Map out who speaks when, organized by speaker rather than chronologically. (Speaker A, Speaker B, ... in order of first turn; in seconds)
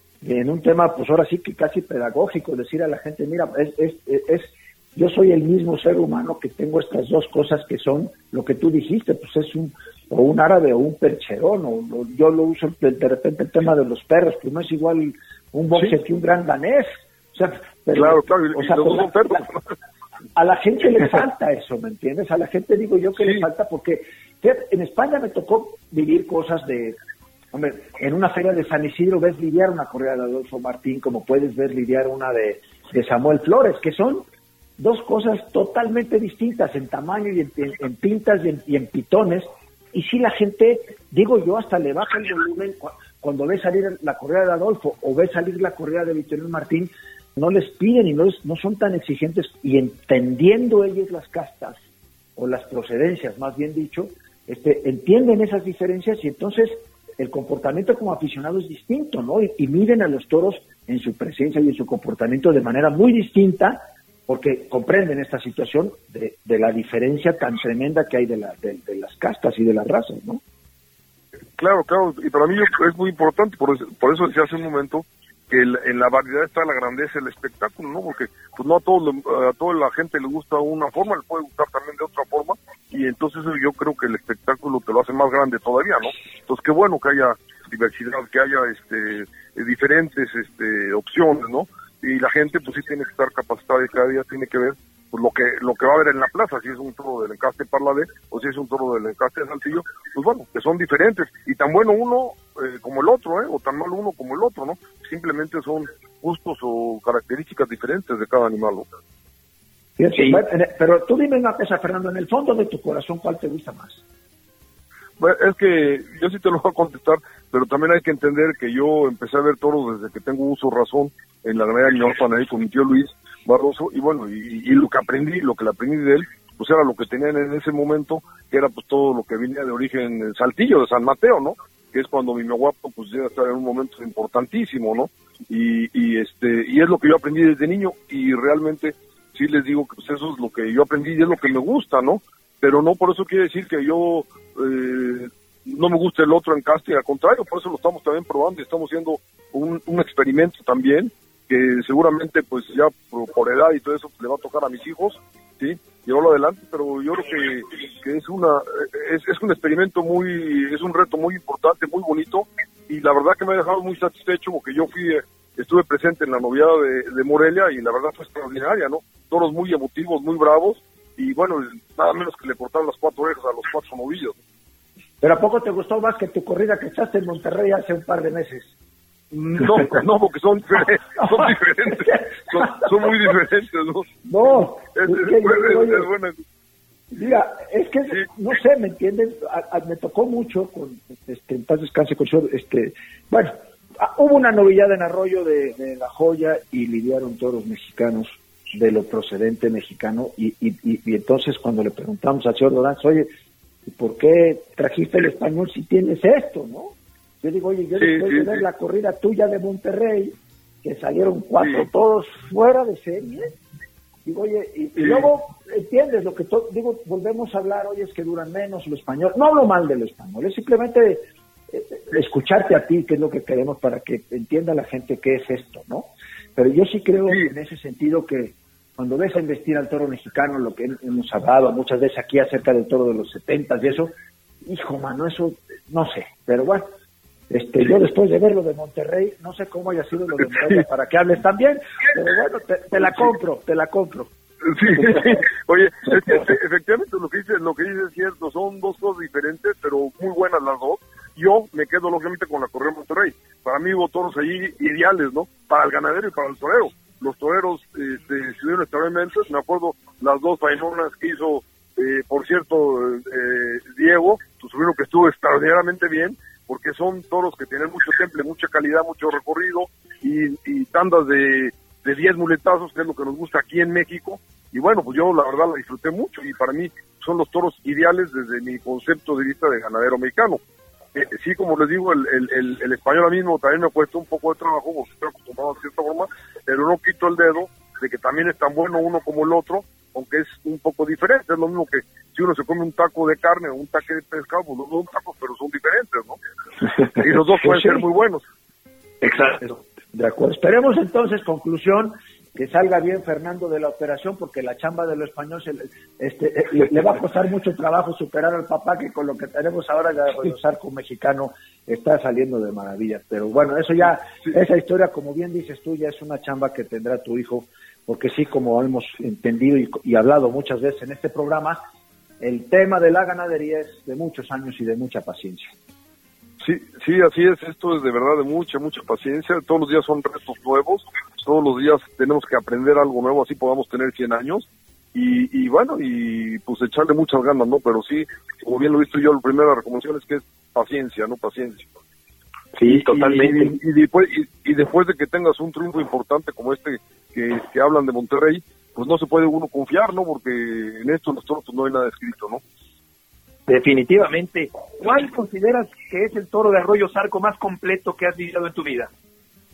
Speaker A: 0.2-19.5, 20.4-27.0, 27.5-34.2, 34.8-51.8, 52.4-70.4, 110.0-114.0, 175.2-178.8, 181.2-183.1, 184.2-186.1, 187.1-203.3, 203.9-213.5, 214.2-234.1, 234.6-236.9, 237.5-244.3, 244.8-245.3, 299.6-321.8, 322.4-325.7
Speaker B: 17.9-19.6, 71.5-108.9, 115.2-174.4, 179.3-186.4, 208.0-208.6, 211.6-211.9, 215.0-215.2, 244.7-280.6, 281.1-296.4, 297.2-298.4, 326.6-341.9, 342.9-352.6
Speaker C: 299.2-299.6, 342.8-343.8, 353.7-359.1